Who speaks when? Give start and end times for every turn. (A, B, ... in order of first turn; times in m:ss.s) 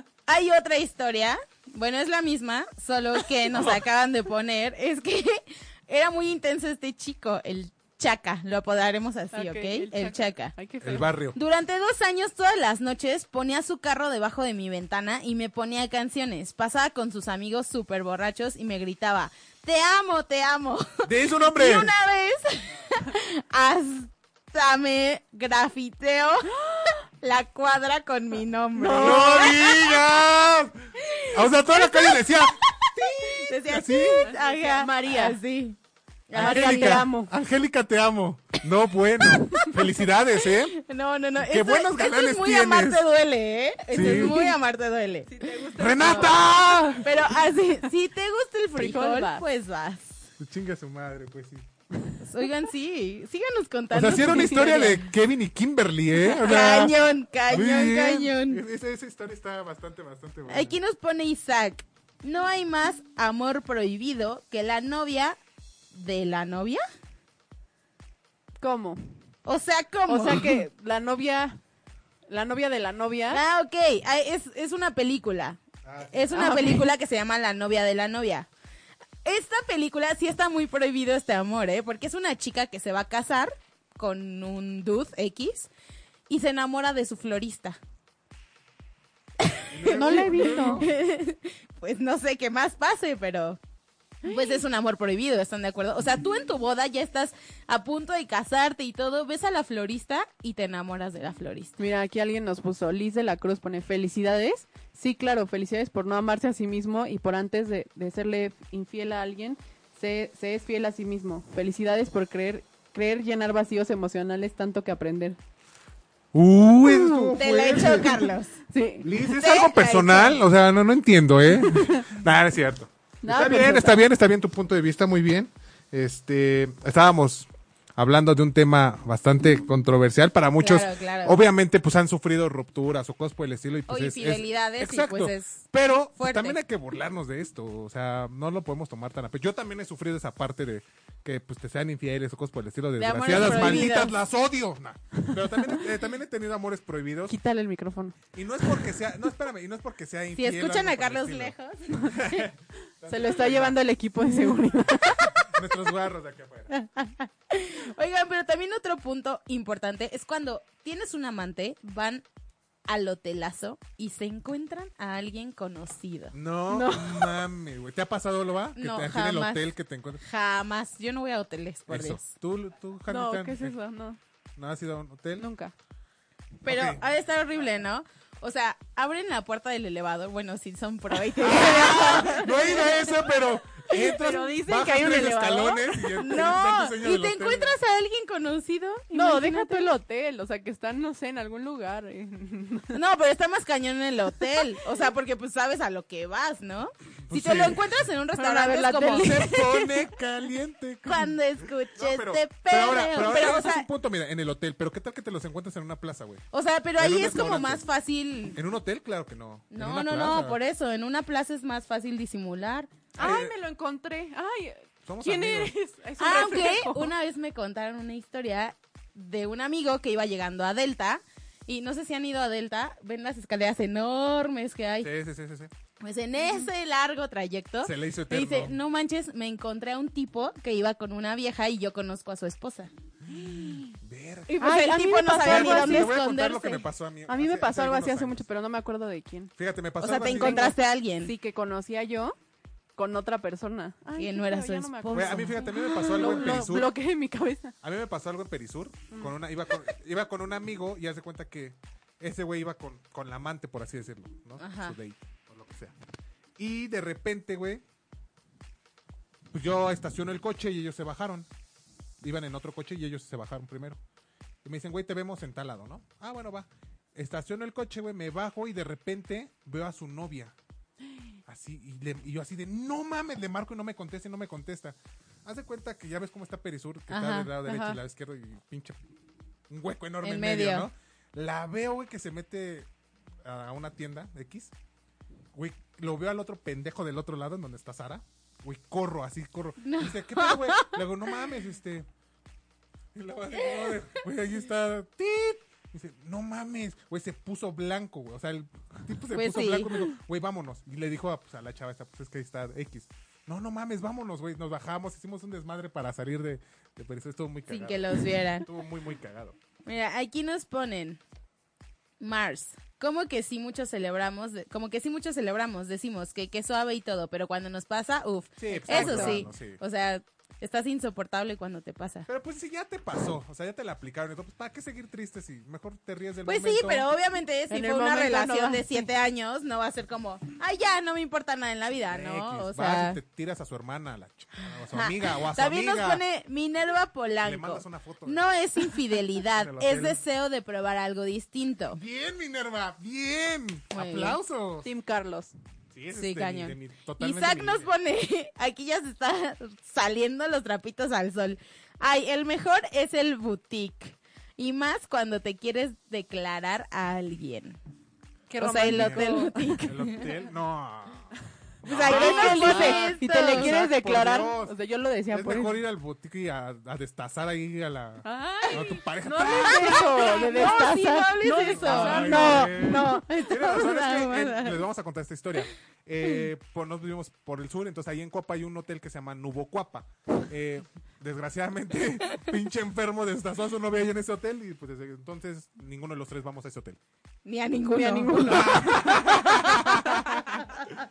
0:00.3-0:10.5 A
0:09.3-0:11.1 B
0:10.8-0:11.4 C
0:11.3-0:30.1 A
0:21.0-0:21.9 C
0:28.8-0:29.6 B
0:29.0-0:30.7 C
0:31.0-0:35.8 A
0:31.3-0:34.3 C
0:34.2-0:35.4 B
0:36.3-0:37.0 A
0:36.3-0:37.3 B
0:36.3-0:40.8 C
0:39.4-0:39.7 A
0:40.7-0:46.4 A
0:41.4-0:43.0 C
0:43.9-0:44.4 C
0:43.9-0:44.6 B
0:45.3-0:47.0 B
0:45.8-0:47.0 C
0:47.0-0:50.2 A
0:48.7-0:49.4 B
0:50.4-0:51.6 C
0:52.2-0:55.1 A
0:53.9-0:57.0 C
0:54.3-0:54.8 B
0:56.2-0:58.6 A
0:57.5-1:00.8 C
1:00.5-1:05.4 A
1:05.9-1:06.8 A
1:08.6-1:09.0 B
1:09.4-1:10.6 A
1:10.1-1:11.6 B
1:12.3-1:13.4 B
1:13.3-1:15.6 A
1:15.8-1:16.2 C
1:16.1-1:18.5 A
1:16.3-1:16.8 B
1:19.2-1:25.7 A
1:26.3-1:27.8 A
1:29.4-1:33.6 A
1:29.7-1:30.9 C
1:29.8-1:30.8 B
1:34.2-1:41.7 A
1:34.3-1:34.5 B
1:41.8-1:55.4 B
1:56.3-1:58.2 C
1:56.8-1:57.4 B
1:57.4-1:58.5 A
1:58.7-1:59.1 B
1:59.0-2:27.3 C
1:59.3-2:00.4 A
2:01.6-2:02.0 B
2:03.2-2:04.0 B
2:10.6-2:11.4 A
2:13.9-2:15.6 A
2:16.2-2:16.6 A
2:23.0-2:24.1 A
2:23.5-2:23.9 B
2:27.3-2:28.2 B
2:28.3-2:33.8 C
2:30.4-2:32.5 A
2:33.1-2:35.3 B
2:35.4-2:36.7 C
2:36.7-2:42.2 A
2:42.8-2:46.3 A
2:46.3-2:50.2 C
2:46.7-2:47.3 B
2:48.8-2:49.6 A
2:50.2-2:52.3 A
2:51.9-2:53.7 C
2:53.1-2:54.2 B
2:54.6-2:55.5 C
2:55.4-2:55.7 B
2:56.6-3:03.0 A
2:56.6-2:57.0 C
3:01.4-3:07.7 C
3:01.9-3:02.9 B
3:04.0-3:06.3 B
3:06.2-3:09.9 A
3:09.1-3:13.0 B
3:12.9-3:19.4 A
3:17.3-3:17.8 C
3:18.4-3:20.0 B
3:19.1-3:21.4 C
3:21.0-3:23.9 A
3:21.9-3:26.4 C
3:26.5-3:28.6 A
3:27.0-3:27.8 C
3:28.5-3:30.6 C
3:29.7-3:32.9 A
3:33.2-3:37.1 B
3:33.2-3:33.5 C
3:35.0-3:35.7 C
3:36.2-3:45.1 A
3:45.0-3:45.7 C
3:46.0-3:52.9 A
3:47.8-3:48.8 C
3:53.3-3:54.6 C
3:53.5-3:53.9 B
3:54.5-3:56.2 B
3:54.6-3:56.8 A
3:55.4-3:58.4 C
3:57.3-3:59.5 B
3:59.6-4:00.7 C
4:00.0-4:01.3 A
4:00.2-4:02.3 B
4:03.0-4:07.7 B
4:04.2-4:06.6 A
4:05.1-4:06.9 C
4:07.8-4:15.9 C
4:14.6-4:15.0 A
4:16.6-4:17.8 C
4:19.5-4:21.5 C
4:22.2-4:24.0 C
4:24.6-4:30.5 C
4:31.5-4:39.0 C
4:37.1-4:37.5 A
4:37.6-4:38.0 B
4:39.7-4:42.9 C
4:40.2-4:40.9 A
4:43.4-4:44.7 C
4:45.5-4:52.1 C
4:49.8-4:51.0 A
4:53.1-5:09.6 C
4:53.5-4:54.0 A
4:59.3-5:00.1 A
5:07.7-5:08.7 A
5:09.8-5:11.2 A
5:12.2-5:22.3 A
5:18.6-5:19.8 C
5:18.9-5:19.4 B
5:22.3-5:27.1 C
5:26.4-5:33.2 A
5:27.7-5:29.1 B
5:32.1-5:36.2 C
5:34.8-5:42.0 A
5:37.4-5:38.4 C
5:39.5-5:40.2 C
5:41.9-5:44.9 C
5:43.9-5:44.4 A
5:44.8-5:45.5 B
5:45.9-5:47.9 C
5:46.1-5:57.8 A
5:58.5-5:59.8 B
5:58.6-6:00.3 A
5:58.8-5:59.2 C
5:59.8-6:01.3 C
6:01.8-6:04.8 C
6:01.8-6:03.7 A
6:02.0-6:05.8 B
6:05.3-6:10.7 C
6:08.2-6:13.2 B
6:09.6-6:14.8 A
6:11.7-6:27.0 C
6:27.4-6:30.5 A
6:27.9-6:29.3 B
6:28.4-6:31.0 C